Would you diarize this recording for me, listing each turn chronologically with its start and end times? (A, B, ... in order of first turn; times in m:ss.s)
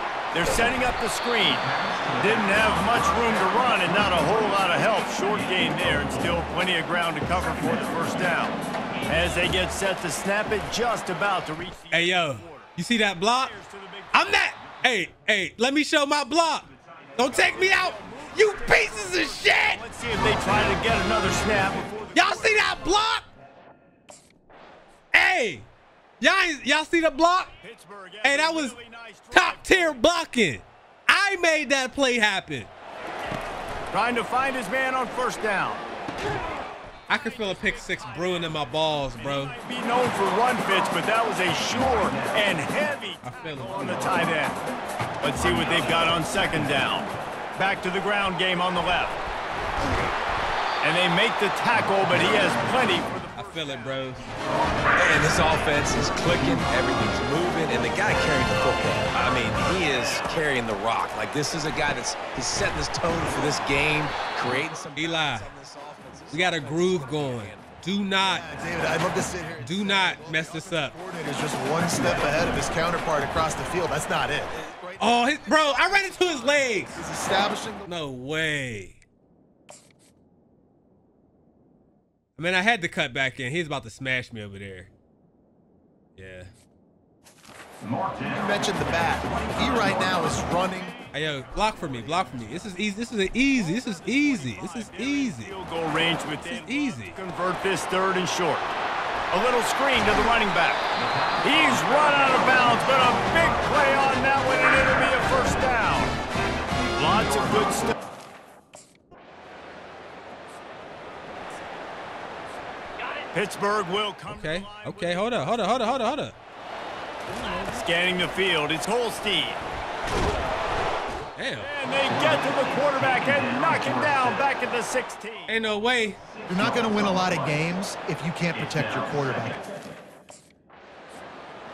0:00.3-0:12.7 A
0:11.9-0:13.5 B
0:13.3-0:14.5 A
0:14.1-0:19.8 B
0:17.2-0:22.7 A
0:22.1-0:23.3 B
0:25.1-0:25.7 B
0:26.2-0:27.5 B
0:27.6-0:30.0 A
0:28.2-0:28.8 B
0:29.3-0:32.7 B
0:33.9-0:35.8 A
0:37.1-0:39.6 B
0:37.1-0:44.6 A
0:43.2-0:44.0 B
0:45.2-0:49.2 A
0:50.8-0:54.3 A
0:53.4-0:54.2 B
0:55.0-1:07.8 C
1:05.0-1:05.5 B
1:06.3-1:08.4 B
1:08.2-1:17.9 D
1:09.6-1:11.0 B
1:14.5-1:15.0 C
1:15.0-1:17.0 B
1:17.9-1:19.0 B
1:22.4-1:24.9 B
1:26.2-1:26.5 B
1:28.3-1:31.0 D
1:30.5-1:32.6 A
1:31.1-1:35.5 B
1:33.5-1:38.8 A
1:36.5-1:37.2 B
1:39.3-1:40.9 A
1:41.4-1:46.2 A
1:46.9-1:48.0 A
1:53.3-1:55.9 A
1:54.3-1:56.4 B
1:57.3-1:57.8 B
1:57.7-1:59.6 A
2:01.4-2:01.7 B
2:01.6-2:05.5 A
2:05.5-2:06.2 B
2:06.5-2:09.7 D